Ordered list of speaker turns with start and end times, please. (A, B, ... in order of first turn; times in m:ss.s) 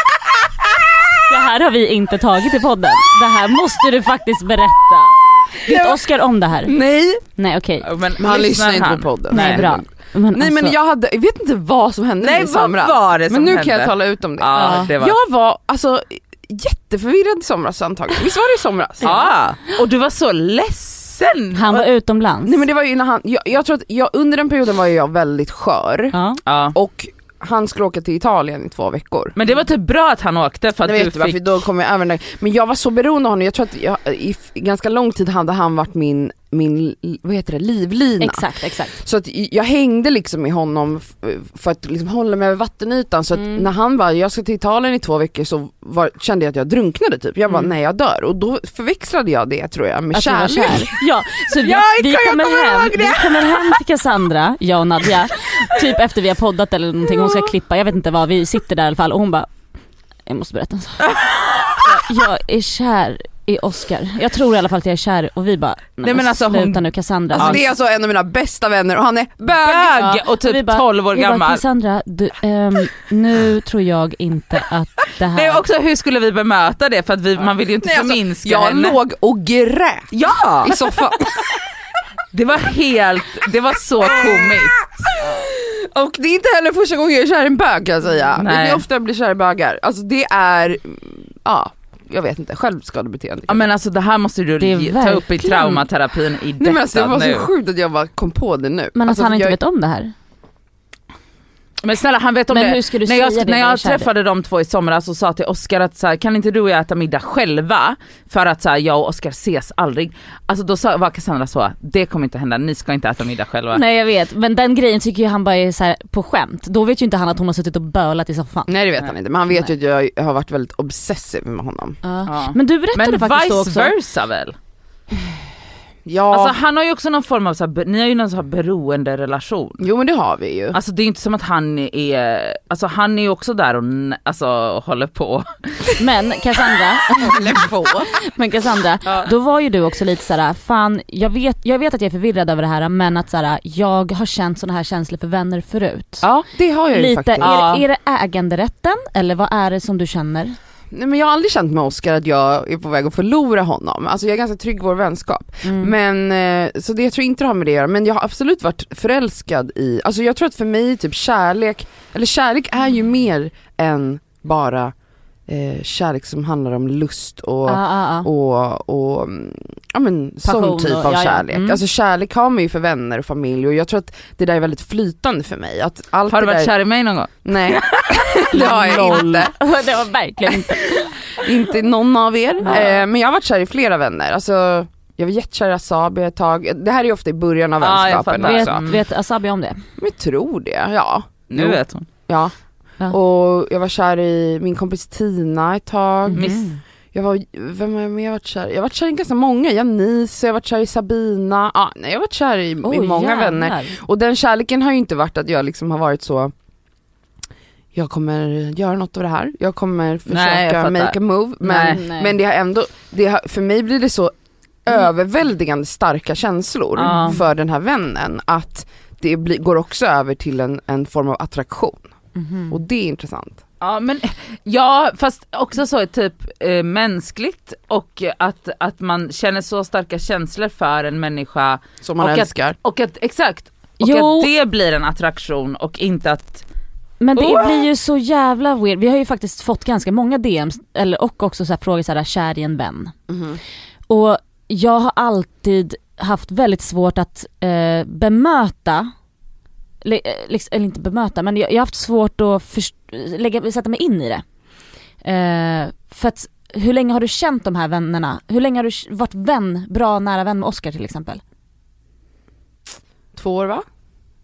0:01.3-0:06.8 A
0:06.7-0:07.2 B
0:07.4-0:07.9 A
0:07.8-0:09.7 C
0:08.2-0:19.0 B
0:09.3-0:10.8 A
0:12.2-0:15.2 C
0:14.6-0:14.9 A
0:19.0-0:21.8 C
0:19.0-0:19.3 A
0:21.5-0:22.6 A
0:22.4-0:26.2 B
0:26.1-0:26.4 A
0:26.5-0:26.8 C
0:26.7-0:29.4 B
0:29.4-0:31.4 C
0:30.8-0:50.8 B
0:38.2-0:39.0 A
0:43.3-0:43.7 A
0:50.1-0:59.5 A
0:51.6-0:53.8 C
1:00.3-1:01.1 A
1:01.0-1:02.0 C
1:01.8-1:07.6 A
1:06.0-1:07.6 C
1:07.4-1:09.9 B
1:09.5-1:11.6 C
1:09.9-1:15.6 A
1:15.3-1:19.0 C
1:17.8-1:20.1 B
1:20.1-1:20.8 C
1:20.6-1:21.3 B
1:22.3-1:24.8 C
1:25.2-1:33.7 B
1:28.4-1:28.8 C
1:33.5-1:37.5 C
1:34.6-1:35.8 A
1:36.6-1:39.6 B
1:39.0-1:40.1 A
1:41.8-1:53.8 C
1:42.5-1:44.1 A
1:53.7-1:58.7 A
1:58.7-2:02.0 B
2:02.0-2:04.0 A
2:02.3-2:04.6 C
2:06.0-2:06.6 B
2:06.3-2:09.8 C
2:09.8-2:10.8 B
2:10.7-2:15.9 C
2:16.0-2:17.4 A
2:17.2-2:18.1 B
2:18.2-2:26.3 A
2:26.2-2:27.6 B
2:26.9-2:30.6 A
2:27.4-2:27.8 C
2:30.9-2:44.9 B
2:35.6-2:35.9 A
2:45.5-2:56.7 B
2:47.7-2:48.3 A
2:50.4-2:51.8 A
2:56.3-2:59.4 C
2:57.4-2:59.5 B
2:58.5-3:01.2 A
3:01.3-3:08.8 B
3:07.8-3:09.0 C
3:08.4-3:09.8 A
3:10.0-3:12.5 B
3:11.5-3:12.1 C
3:13.1-3:16.4 B
3:16.3-3:16.8 A
3:16.3-3:16.7 C
3:17.1-3:26.5 B
3:22.8-3:24.0 A
3:27.9-3:34.3 B
3:30.3-3:32.0 C
3:31.7-3:32.4 A
3:34.8-3:42.1 B
3:37.0-3:37.4 C
3:37.0-3:37.4 A
3:42.4-3:42.7 A
3:42.7-3:43.6 B
3:43.8-3:56.6 C
3:52.0-3:52.8 B
3:54.0-3:54.5 A
3:57.2-4:03.1 A
3:57.4-3:57.9 C
4:03.3-4:03.6 B
4:04.1-4:09.1 A
4:10.0-4:14.4 A
4:15.2-4:21.4 A
4:23.4-4:23.8 B